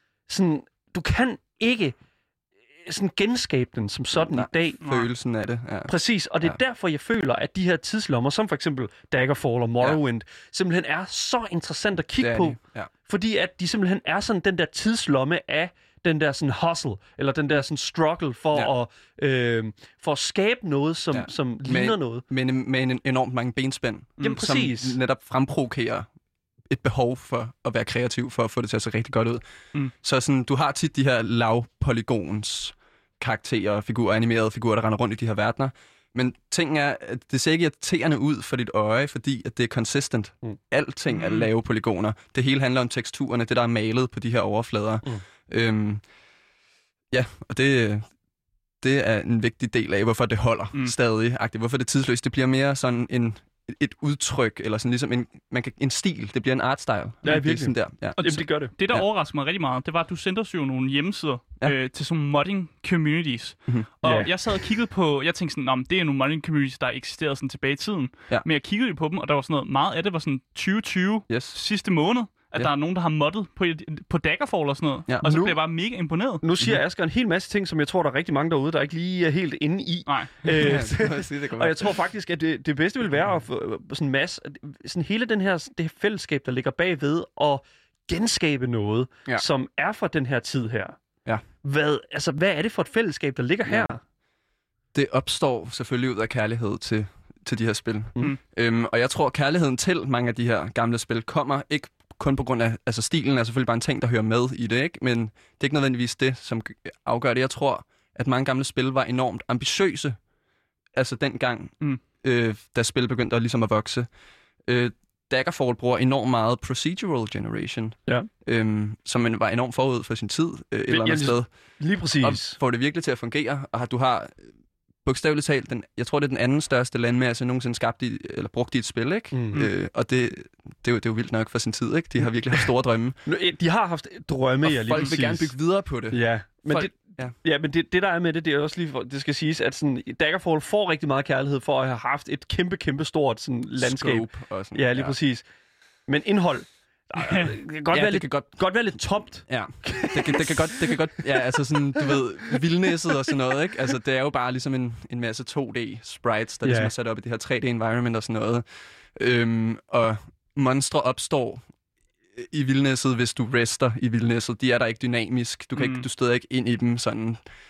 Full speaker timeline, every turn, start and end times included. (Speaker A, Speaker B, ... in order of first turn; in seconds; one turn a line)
Speaker A: 0.3-1.9
Speaker A: 2.9-4.8
Speaker B: 4.1-6.6
Speaker C: 4.8-5.1
Speaker A: 5.9-22.2
Speaker B: 12.2-12.9
Speaker B: 21.1-26.1
Speaker A: 24.2-25.0
Speaker B: 26.7-29.4
Speaker B: 29.9-46.0
Speaker C: 41.1-41.5
Speaker B: 47.1-48.0
Speaker B: 48.8-59.1
Speaker A: 57.2-58.7
Speaker C: 58.2-76.4
Speaker A: 64.0-64.3
Speaker B: 71.3-71.6
Speaker A: 75.2-75.6
Speaker A: 76.4-91.0
Speaker C: 80.1-80.6
Speaker B: 80.6-81.9
Speaker A: 91.6-94.0
Speaker B: 94.9-110.2
Speaker B: 111.0-114.1
Speaker B: 114.7-121.5
Speaker A: 120.9-122.6
Speaker B: 122.2-124.4
Speaker B: 125.0-133.2
Speaker A: 129.3-129.6
Speaker A: 133.2-135.5
Speaker B: 134.6-137.3
Speaker A: 136.1-145.5
Speaker B: 143.8-145.2
Speaker A: 146.1-151.4
Speaker C: 147.2-147.5
Speaker B: 147.9-148.5
Speaker B: 149.5-158.6
Speaker A: 156.6-156.9
Speaker B: 159.2-161.6
Speaker B: 162.3-167.4
Speaker C: 165.8-166.1